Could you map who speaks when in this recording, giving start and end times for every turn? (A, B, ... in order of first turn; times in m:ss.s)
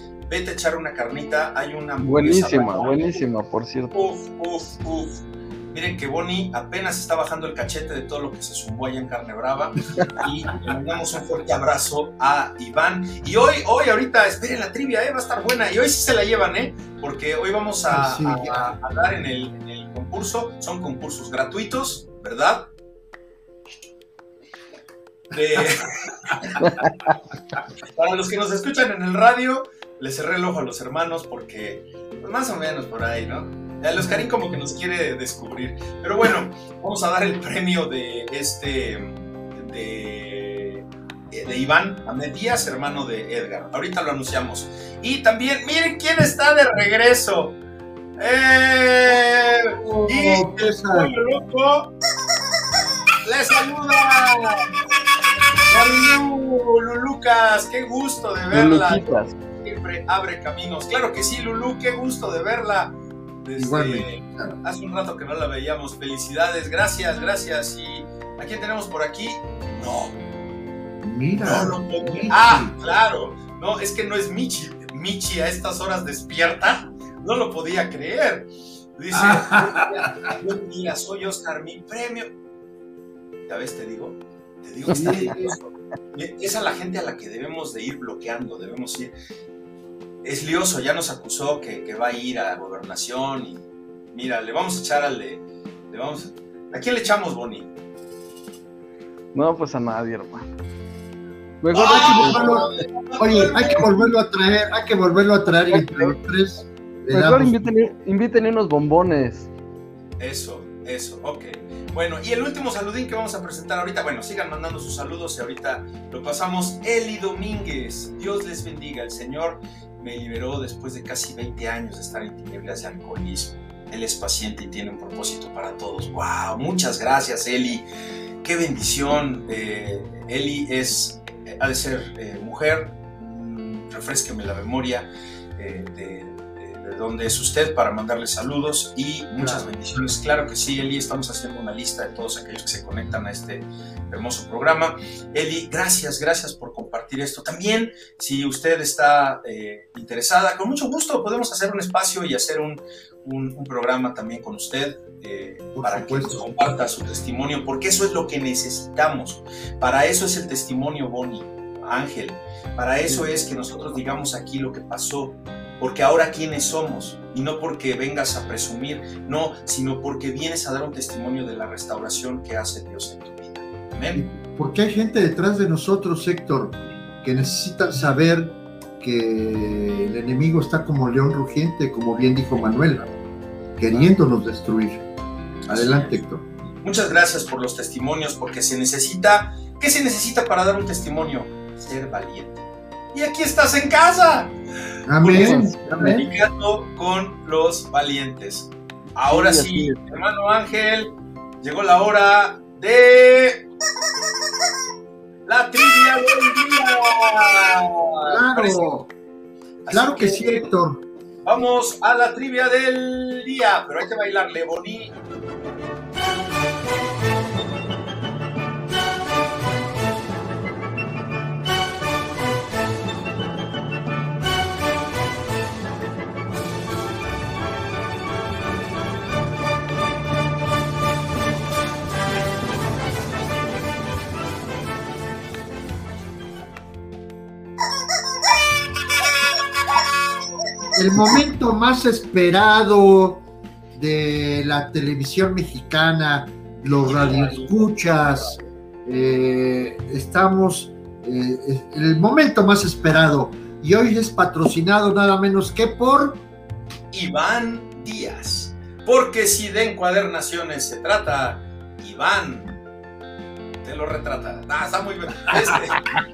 0:00.3-0:03.2 A
0:02.0-0:03.9 B
0:03.9-0:22.7 A
0:17.9-0:18.8 C
0:25.3-0:26.5 A
0:26.6-0:27.1 B
0:27.9-0:47.6 A
0:48.2-0:51.9 A
0:49.7-0:51.1 C
0:53.2-0:54.6 A
0:55.7-1:10.2 A
0:58.5-0:59.3 B
1:03.6-1:04.6 C
1:11.0-1:12.7 C
1:11.4-1:22.3 A
1:19.1-1:20.4 C
1:23.5-1:29.1 A
1:24.9-1:25.4 B
1:24.9-1:25.5 C
1:30.2-1:37.7 A
1:39.3-1:40.4 B
1:41.6-1:42.6 B
1:41.7-1:44.1 A
1:41.9-1:47.6 C
1:45.7-1:46.1 B
1:47.1-1:49.5 B
1:50.2-2:07.8 A
2:08.4-2:54.2 A
2:19.4-2:19.7 C
2:35.7-2:36.4 C
2:54.1-3:03.0 C
3:03.8-3:05.0 C
3:05.7-3:06.2 A
3:05.7-3:06.4 C
3:06.8-3:14.5 A
3:15.0-3:16.3 C
3:15.2-3:23.6 A
3:15.3-3:16.2 B
3:19.2-3:20.0 B
3:25.4-3:28.9 A
3:28.2-3:29.1 C
3:29.8-3:30.6 A
3:29.9-3:31.0 C
3:31.4-3:35.1 A
4:00.9-4:16.4 C
4:07.0-4:08.6 A
4:17.1-4:22.7 A
4:23.8-4:26.0 A